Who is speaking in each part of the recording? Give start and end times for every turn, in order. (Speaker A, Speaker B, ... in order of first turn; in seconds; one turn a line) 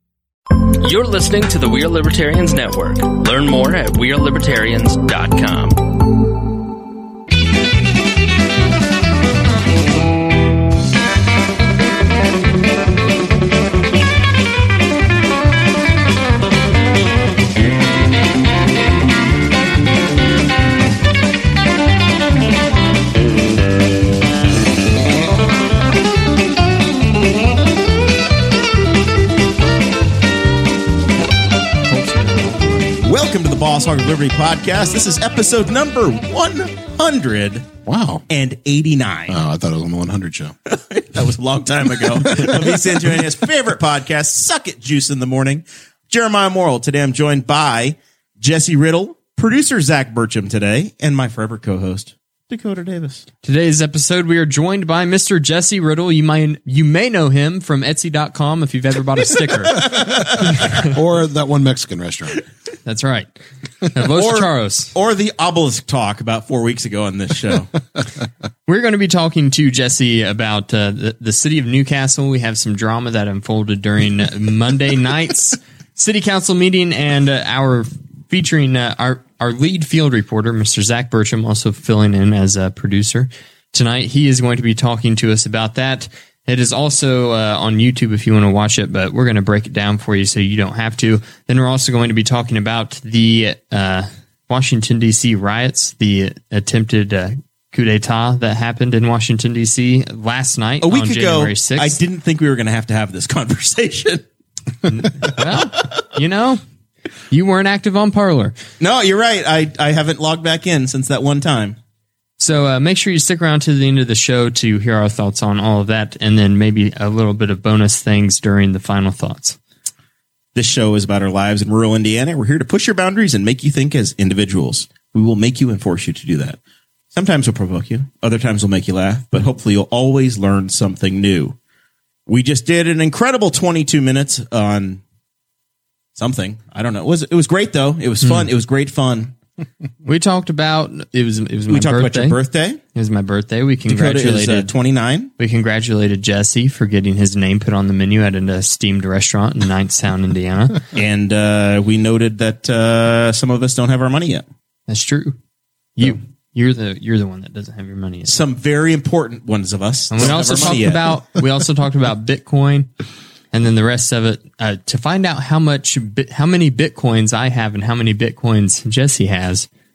Speaker A: 0.7-5.9
Speaker B: 31.9-33.0
Speaker C: 33.0-37.7
Speaker D: 37.9-38.2
Speaker C: 38.3-39.4
Speaker D: 39.3-40.6
Speaker C: 40.7-53.2
Speaker D: 42.1-43.3
Speaker B: 53.4-59.9
Speaker C: 59.7-60.1
Speaker D: 59.8-62.4
Speaker B: 60.6-60.9
Speaker B: 62.9-63.3
Speaker B: 63.9-64.9
Speaker C: 64.2-67.7
Speaker B: 68.7-102.0
Speaker C: 100.8-104.2
Speaker B: 104.9-106.6
Speaker C: 105.2-105.8
Speaker B: 107.3-108.5
Speaker C: 108.8-111.8
Speaker B: 112.4-119.6
Speaker C: 120.5-126.6
Speaker C: 127.1-131.6
Speaker C: 132.3-135.0
Speaker C: 136.2-139.3
Speaker B: 138.2-138.5
Speaker B: 140.0-142.4
Speaker C: 141.7-142.8
Speaker B: 142.9-144.7
Speaker C: 143.9-145.3
Speaker B: 145.4-150.8
Speaker C: 150.9-154.4
Speaker B: 154.9-155.3
Speaker B: 156.0-158.3
Speaker C: 158.2-161.2
Speaker B: 160.1-162.9
Speaker B: 163.5-169.7